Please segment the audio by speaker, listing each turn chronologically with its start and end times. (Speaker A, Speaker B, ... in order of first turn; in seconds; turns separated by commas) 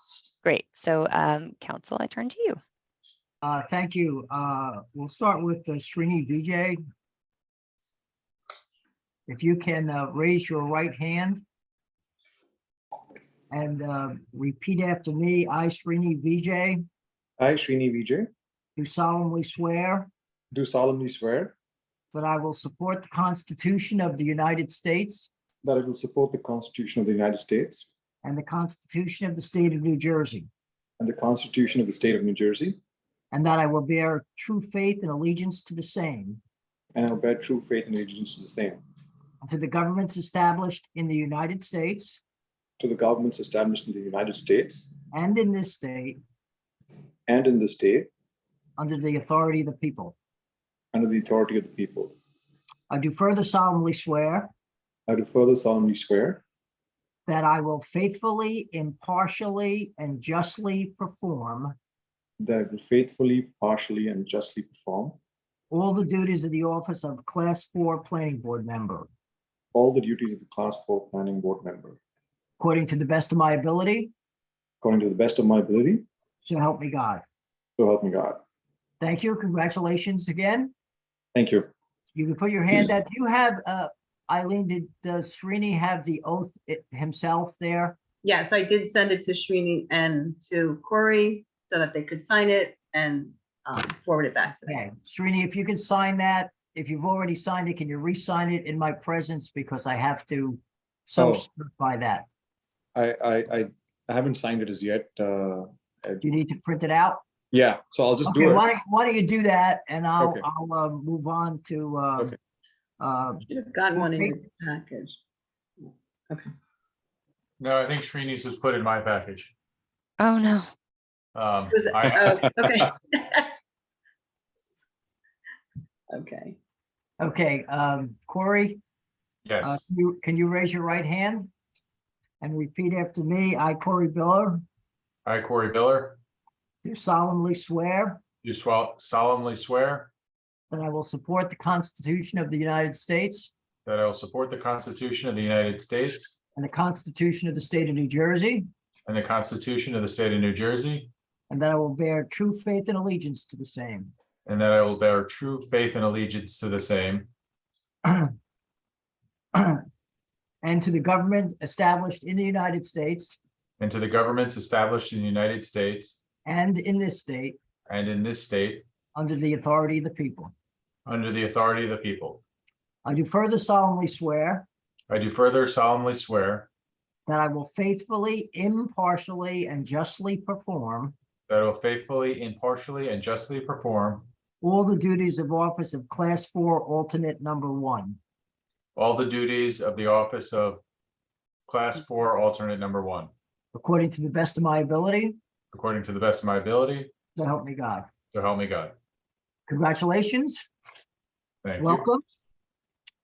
Speaker A: 0.4-2.6, Speaker B: 3.4-6.8, Speaker B: 9.3-11.4, Speaker B: 13.5-16.8, Speaker C: 17.4-18.3, Speaker B: 18.8-20.1, Speaker C: 20.5-21.5, Speaker B: 22.1-25.3, Speaker C: 25.6-27.9, Speaker B: 28.2-30.5, Speaker C: 31.0-32.8, Speaker B: 33.3-36.4, Speaker C: 36.9-38.8, Speaker B: 39.4-42.2, Speaker C: 42.8-44.9, Speaker B: 45.1-46.2, Speaker C: 47.3-48.1, Speaker B: 48.8-50.1, Speaker C: 50.9-52.1, Speaker B: 52.9-54.5, Speaker C: 55.1-56.4, Speaker B: 57.2-61.7, Speaker C: 62.4-65.2, Speaker B: 65.7-69.1, Speaker C: 69.7-72.0, Speaker B: 72.6-74.1, Speaker C: 74.8-76.0, Speaker B: 76.4-77.2, Speaker C: 77.8-78.4, Speaker B: 79.0-80.7, Speaker C: 81.3-81.7, Speaker B: 82.1-88.0, Speaker D: 88.2-94.8, Speaker B: 94.7-102.3, Speaker C: 101.2-101.4, Speaker C: 102.9-106.2, Speaker B: 106.2-107.2, Speaker C: 107.5-108.6, Speaker B: 108.2-112.4, Speaker C: 110.2-110.5, Speaker B: 113.0-114.3, Speaker D: 113.5-115.2, Speaker E: 117.6-119.5, Speaker A: 120.2-120.7, Speaker E: 121.3-122.6, Speaker D: 121.7-123.5, Speaker D: 126.1-126.6, Speaker B: 127.2-128.8, Speaker E: 129.4-129.8, Speaker B: 129.6-131.5, Speaker B: 132.4-134.6, Speaker E: 135.2-136.2, Speaker B: 136.8-138.2, Speaker E: 138.4-140.1, Speaker B: 140.7-143.5, Speaker E: 143.8-146.3, Speaker B: 146.6-148.7, Speaker E: 149.1-151.1, Speaker B: 151.5-154.1, Speaker E: 154.4-157.3, Speaker B: 158.0-158.3, Speaker B: 159.5-159.8, Speaker B: 160.6-163.4, Speaker E: 163.8-166.2, Speaker B: 166.4-167.6, Speaker E: 167.8-168.8, Speaker B: 169.1-170.5, Speaker E: 171.1-172.4, Speaker B: 173.0-174.7, Speaker E: 175.1-176.7, Speaker B: 177.2-181.1, Speaker E: 181.5-184.3, Speaker B: 184.6-188.2, Speaker E: 188.9-190.8, Speaker E: 191.7-193.3, Speaker B: 193.7-195.3, Speaker E: 195.7-197.1, Speaker B: 197.3-198.1, Speaker E: 198.3-198.9, Speaker B: 199.7-200.7, Speaker E: 201.6-202.1, Speaker B: 201.8-202.2